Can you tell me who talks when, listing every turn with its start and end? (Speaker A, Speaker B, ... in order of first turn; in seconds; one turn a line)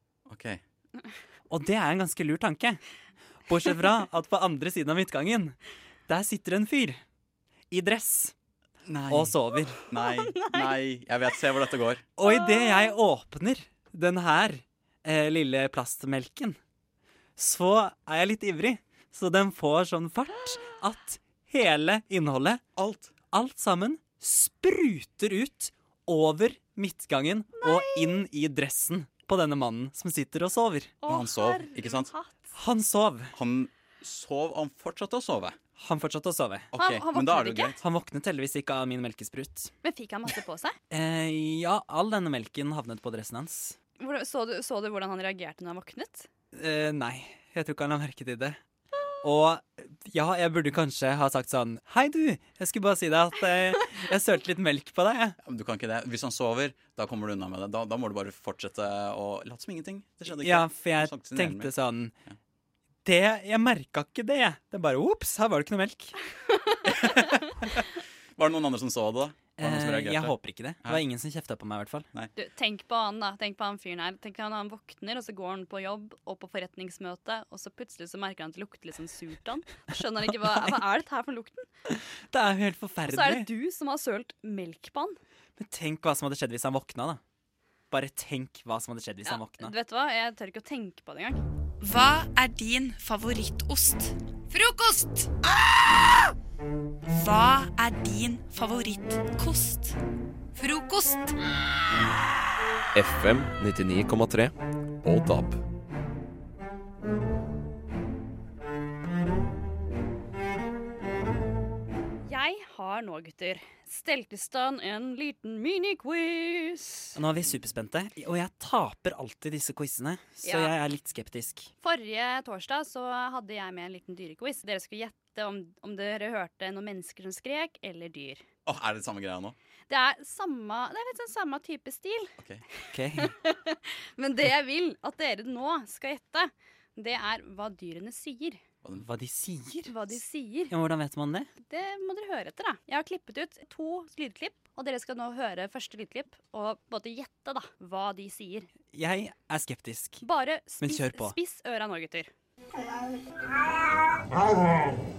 Speaker A: 0.3-0.6
Speaker B: 1.5-2.8
Speaker B: 3.5-5.6
Speaker B: 6.1-7.0
Speaker B: 7.7-8.3
Speaker A: 8.9-9.3
Speaker B: 9.1-9.8
Speaker A: 9.9-12.1
Speaker C: 10.0-10.7
Speaker B: 12.2-16.6
Speaker C: 12.2-12.9
Speaker B: 17.4-22.6
Speaker A: 22.8-23.2
Speaker B: 23.3-30.9
Speaker C: 27.6-28.0
Speaker C: 31.0-32.6
Speaker A: 31.1-32.1
Speaker B: 32.6-33.3
Speaker A: 33.4-35.6
Speaker B: 35.8-36.7
Speaker A: 36.7-37.8
Speaker C: 36.7-37.8
Speaker B: 37.8-39.7
Speaker C: 39.8-40.8
Speaker B: 40.9-43.8
Speaker C: 44.0-46.3
Speaker B: 46.5-48.6
Speaker B: 49.2-55.4
Speaker A: 55.4-61.7
Speaker B: 60.3-62.1
Speaker B: 63.0-66.2
Speaker A: 68.4-71.0
Speaker B: 69.5-72.1
Speaker C: 72.4-81.7
Speaker B: 80.4-80.8
Speaker B: 81.9-83.5
Speaker C: 83.1-85.2
Speaker B: 85.6-87.2
Speaker B: 87.9-89.7
Speaker C: 89.3-91.4
Speaker D: 91.8-95.3
Speaker D: 97.1-100.0
Speaker D: 100.6-101.3
Speaker E: 102.9-105.6
Speaker C: 112.2-117.2
Speaker B: 117.2-121.7
Speaker C: 120.4-120.8
Speaker C: 121.8-128.4
Speaker A: 128.7-129.6
Speaker C: 129.9-132.3
Speaker B: 132.9-133.3
Speaker C: 133.3-138.6
Speaker B: 139.0-140.1
Speaker C: 139.9-140.7
Speaker B: 140.7-141.5
Speaker C: 141.6-148.7
Speaker B: 148.9-150.2
Speaker C: 150.2-152.3
Speaker B: 150.8-151.4